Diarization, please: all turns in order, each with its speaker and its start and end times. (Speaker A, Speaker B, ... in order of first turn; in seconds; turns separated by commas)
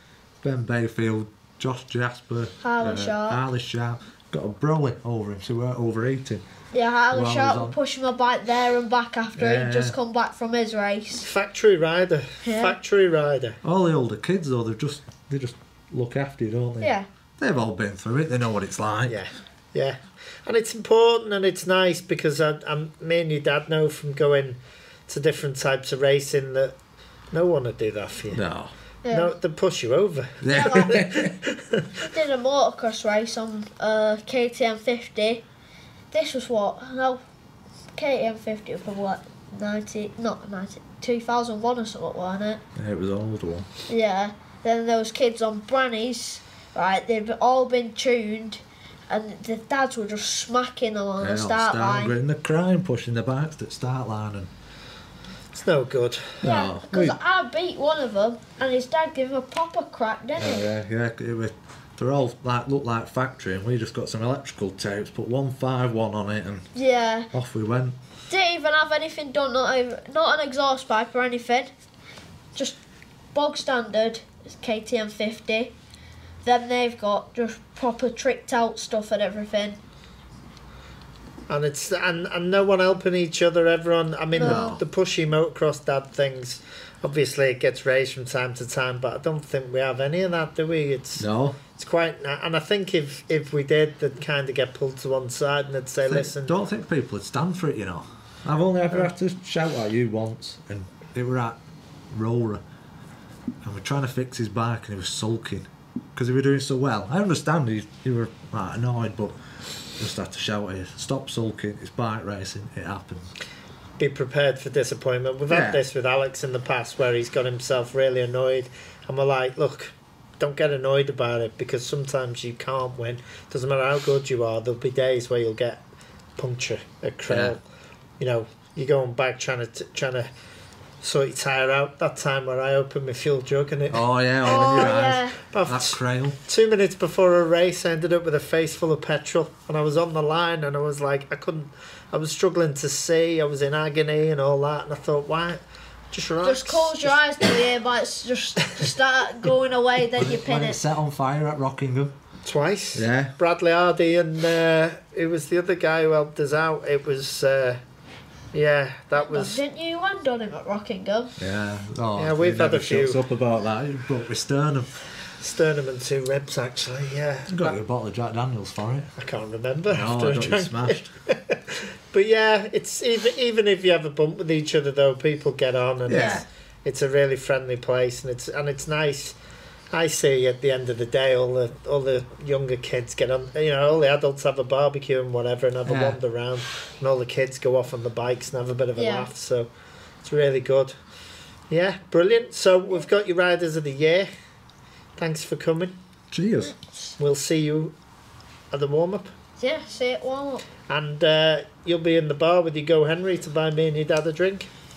Speaker A: 0.4-6.4, Speaker B: 2.6-3.4, Speaker B: 6.7-11.3, Speaker A: 7.1-7.8, Speaker A: 9.4-10.0, Speaker C: 11.2-13.6, Speaker B: 12.4-12.8, Speaker A: 13.6-19.2, Speaker B: 16.8-17.1, Speaker C: 19.1-26.8, Speaker C: 27.3-28.4, Speaker A: 28.3-28.7, Speaker B: 29.0-29.3, Speaker C: 29.1-31.9, Speaker A: 30.4-31.4, Speaker B: 30.5-31.0, Speaker B: 32.0-35.4, Speaker B: 36.1-37.2, Speaker B: 37.9-42.6, Speaker A: 42.8-43.7, Speaker B: 43.9-52.1, Speaker A: 51.2-54.5, Speaker C: 55.5-56.4, Speaker A: 56.4-57.2, Speaker B: 56.4-60.7, Speaker A: 60.4-66.7, Speaker B: 66.7-67.3, Speaker A: 67.3-68.0, Speaker B: 68.3-71.7, Speaker B: 73.3-75.7, Speaker B: 76.4-79.8, Speaker C: 81.5-96.5, Speaker B: 84.3-84.8, Speaker A: 84.4-84.8, Speaker A: 91.2-91.6, Speaker A: 96.0-101.6, Speaker A: 102.1-102.6, Speaker A: 103.6-109.3, Speaker A: 110.0-113.3, Speaker C: 114.0-125.8, Speaker A: 115.5-115.8, Speaker C: 126.4-127.6, Speaker A: 127.3-127.5, Speaker C: 128.2-130.3, Speaker C: 131.0-147.2, Speaker A: 133.9-136.4, Speaker B: 134.4-135.4, Speaker B: 146.4-150.8, Speaker A: 150.2-152.1, Speaker C: 152.4-157.8, Speaker A: 152.9-153.3, Speaker C: 158.5-159.6, Speaker B: 159.2-161.3, Speaker A: 161.4-164.9, Speaker C: 162.2-163.2, Speaker C: 165.4-167.8, Speaker A: 167.5-169.1, Speaker C: 169.2-179.4, Speaker A: 169.9-171.1, Speaker A: 176.1-176.4, Speaker B: 176.1-176.4, Speaker C: 179.9-189.7, Speaker A: 185.8-186.2, Speaker B: 189.0-189.3, Speaker C: 190.2-190.9, Speaker C: 191.7-194.3, Speaker C: 195.2-195.9, Speaker A: 196.3-196.7, Speaker B: 196.6-197.1, Speaker C: 197.2-197.9, Speaker C: 198.7-199.3, Speaker B: 199.6-200.6, Speaker C: 200.9-204.7